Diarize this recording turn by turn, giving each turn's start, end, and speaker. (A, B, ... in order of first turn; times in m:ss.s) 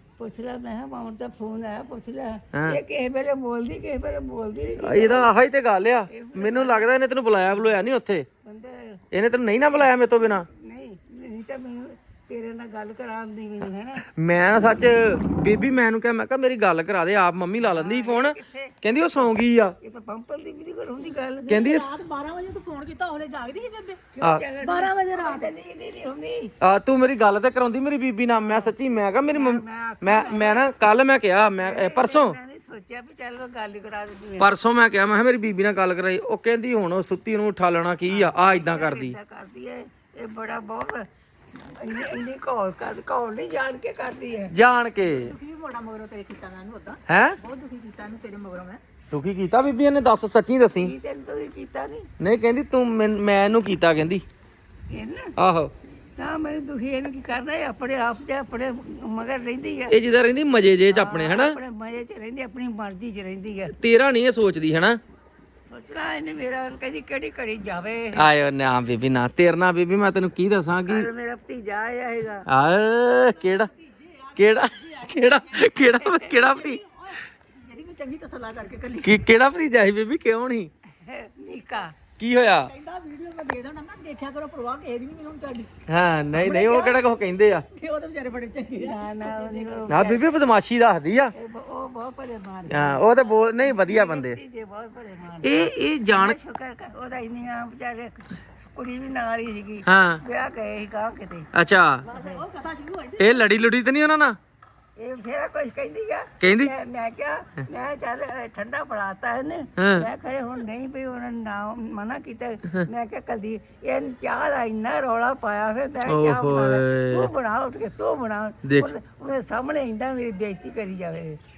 0:00.2-0:05.3 A
0:02.5-0:02.8 B
0:04.8-0:08.3 B
0:06.1-0:06.9 A
0:08.4-0:09.0 A
0:09.1-0:10.5 B
0:10.4-0:14.0 A
0:14.2-0:19.8 B
0:17.6-0:18.7 A
0:19.8-0:21.5 A
0:21.5-0:24.0 C
0:21.5-0:22.0 B
0:24.1-0:26.5 A
0:24.6-0:25.5 C
0:26.6-0:32.4 B
0:28.5-0:28.7 A
0:29.3-0:30.7 A
0:31.6-0:34.5 A
0:34.4-0:39.2 B
0:38.1-0:41.1 A
0:41.6-0:44.5 A
0:44.5-0:45.3 B
0:45.0-0:48.8 C
0:47.1-0:47.4 B
0:49.1-0:50.9 B
0:50.8-0:52.1 A
0:52.2-0:54.2 B
0:54.9-0:55.3 A
0:55.4-0:55.7 B
0:56.2-1:00.0 A
0:59.9-1:01.6 B
1:00.9-1:03.7 A
1:03.7-1:05.0 B
1:05.7-1:08.3 A
1:08.2-1:11.1 B
1:10.9-1:12.5 A
1:12.5-1:13.7 B
1:13.3-1:19.2 C
1:14.4-1:16.8 B
1:19.0-1:20.7 B
1:21.0-1:22.0 A
1:22.2-1:22.7 B
1:22.6-1:25.7 C
1:25.9-1:27.6 B
1:26.4-1:27.0 C
1:27.8-1:30.1 C
1:28.8-1:30.2 A
1:29.9-1:31.3 B
1:31.4-1:41.5 A
1:32.7-1:34.4 B
1:35.4-1:36.4 B
1:39.9-1:40.2 B
1:41.5-1:42.0 B
1:42.1-1:43.5 C
1:42.1-1:42.4 A
1:43.2-1:44.4 B
1:45.0-2:01.4 A
1:46.4-1:46.7 B
1:49.8-1:50.1 B
1:56.1-1:57.3 B
1:58.6-1:58.9 B